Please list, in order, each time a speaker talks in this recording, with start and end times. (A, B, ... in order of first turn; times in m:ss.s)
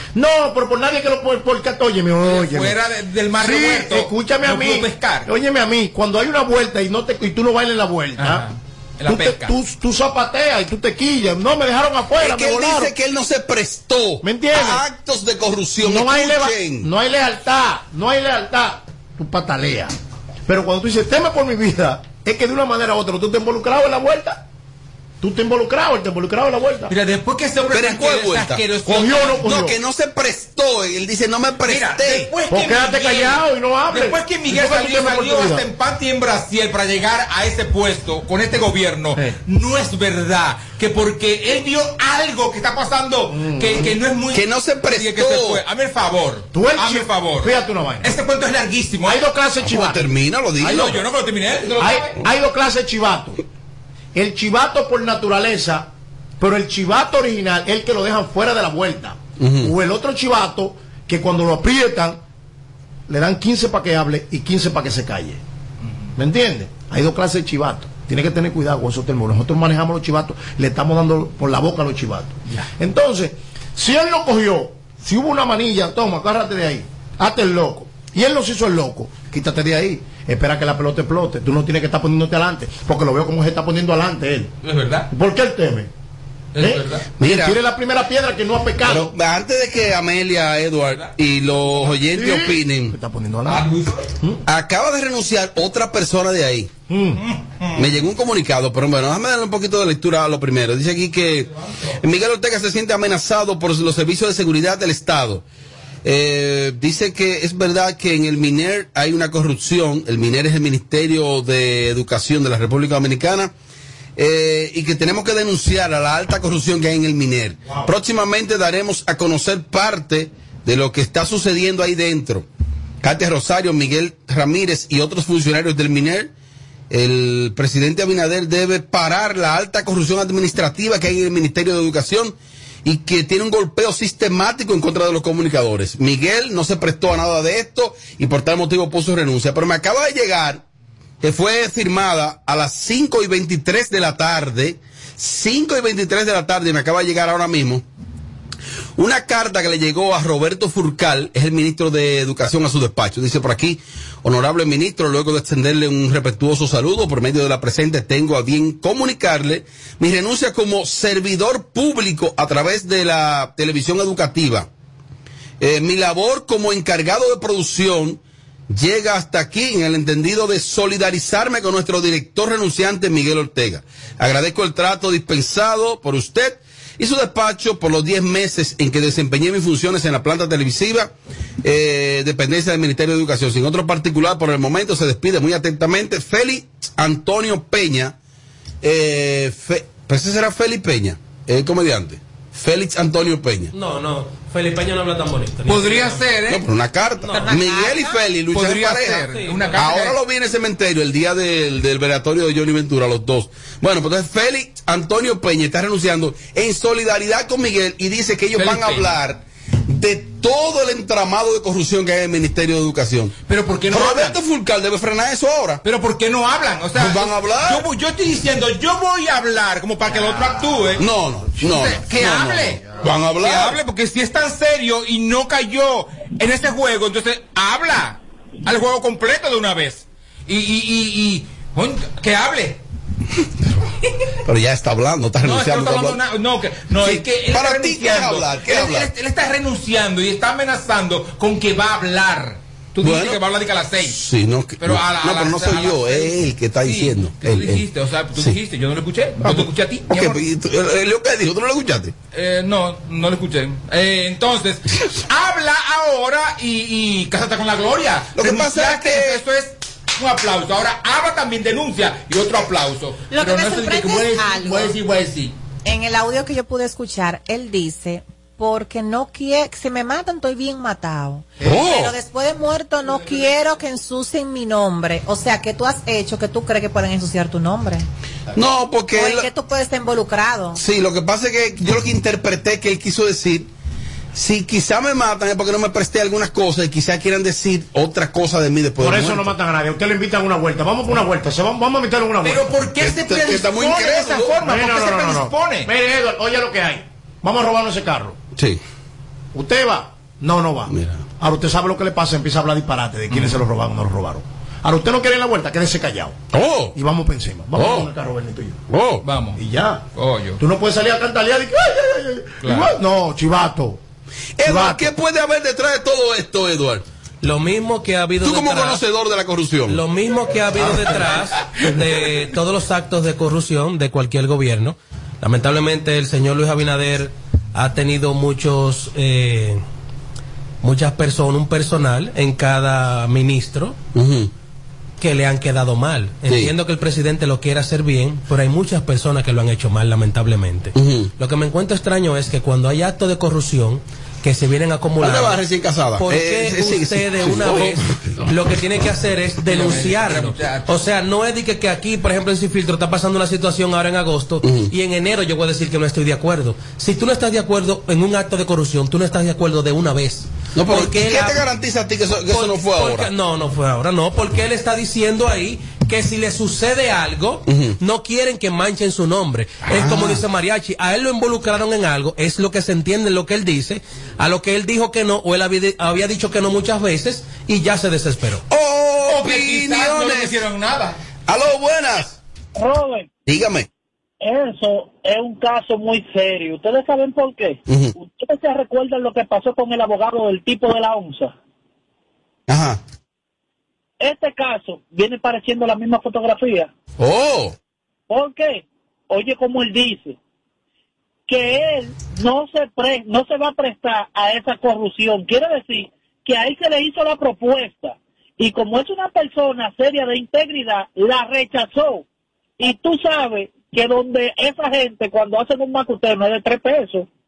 0:00.1-0:02.8 A
0:02.2-0:05.3 B
0:03.4-0:08.5 A
0:08.2-0:09.5 B
0:09.0-0:12.9 A
0:12.2-0:16.9 C
0:14.2-0:14.8 A
0:15.8-0:19.9 A
0:20.4-0:24.4 A
0:25.2-0:26.9 A
0:26.9-0:29.6 B
0:27.7-0:28.6 C
0:28.8-0:29.8 A
0:29.4-0:32.3 C
0:31.6-0:49.2 B
0:32.5-0:35.6 A
0:43.3-0:44.0 A
0:44.3-0:45.6 C
0:46.5-0:48.2 A
0:49.0-0:51.0 A
0:49.6-0:50.9 C
0:50.6-0:52.2 B
0:51.8-0:53.4 A
0:54.1-1:02.2 A
0:59.4-0:59.7 C
1:03.1-1:05.4 A
1:06.2-1:24.5 A
1:24.6-1:25.1 B
1:25.1-1:25.9 A
1:26.5-1:27.0 B
1:26.6-1:29.1 A
1:27.2-1:27.6 C
1:28.8-1:33.0 C
1:31.9-1:33.7 A
1:33.5-1:34.1 B
1:34.5-1:36.7 C
1:36.9-1:37.2 A
1:37.2-1:37.8 B
1:37.8-1:45.4 C
1:46.0-1:53.5 C
1:54.2-2:02.5 C
2:03.0-2:06.3 C
2:06.9-2:20.6 C
2:21.2-2:27.8 C
2:29.0-2:44.7 C
2:45.6-3:08.2 C
3:08.8-3:13.7 C
3:13.7-3:16.3 D
3:15.7-3:16.6 B
3:16.5-3:33.3 C
3:17.2-3:17.5 D
3:17.3-3:18.2 E
3:18.5-3:20.2 B
3:19.3-3:19.8 D
3:28.5-3:29.2 B
3:33.5-3:34.4 B
3:33.9-3:35.8 C
3:35.8-3:41.0 B
3:36.9-3:37.8 C
3:40.2-3:40.9 A
3:41.0-3:43.8 C
3:41.6-3:52.8 B
3:54.4-3:56.2 C
3:55.4-4:04.2 B
3:57.0-3:59.1 C
4:03.0-4:03.4 C
4:04.0-4:07.8 C
4:04.8-4:10.4 B
4:09.4-4:12.1 C
4:12.3-4:25.5 B
4:18.4-4:19.4 C
4:23.3-4:24.9 E
4:25.8-4:38.1 E
4:31.6-4:32.2 C
4:38.5-4:39.5 C
4:39.1-4:40.8 E
4:40.8-4:43.7 C
4:44.3-4:49.5 C
4:49.0-4:52.8 A
4:52.4-4:55.9 B
4:53.0-4:54.5 C
4:54.6-4:58.4 A
4:59.5-5:06.4 A
5:00.9-5:01.2 C
5:03.3-5:03.6 B
5:06.5-5:07.0 C
5:06.9-5:08.8 A
5:07.8-5:08.1 C
5:08.9-5:09.2 C
5:09.2-5:09.6 B
5:09.6-5:10.0 A
5:10.1-5:10.6 B
5:10.6-5:14.0 A
5:12.6-5:12.9 B
5:14.6-5:17.0 C
5:14.6-5:15.1 A
5:17.4-5:19.0 D
5:18.4-5:20.0 C
5:19.9-5:29.8 D
5:30.8-5:34.0 D
5:34.1-5:34.5 C
5:35.2-5:45.6 D
5:40.9-5:41.3 C
5:45.2-5:48.5 C
5:46.2-6:01.6 D
5:49.6-5:50.9 B
5:54.6-5:54.9 C
6:00.8-6:03.3 C
6:02.5-6:18.6 D
6:07.7-6:08.0 C
6:09.9-6:10.4 C
6:18.7-6:20.5 C
6:19.2-6:21.2 B
6:21.5-6:22.4 C
6:22.7-6:23.3 F
6:23.4-6:23.9 C
6:24.4-6:31.5 F
6:27.9-6:28.1 C
6:32.7-6:33.0 C
6:34.2-6:36.9 F
6:37.2-6:37.7 C
6:38.3-6:40.4 F
6:41.5-6:52.2 F
6:52.8-6:57.3 F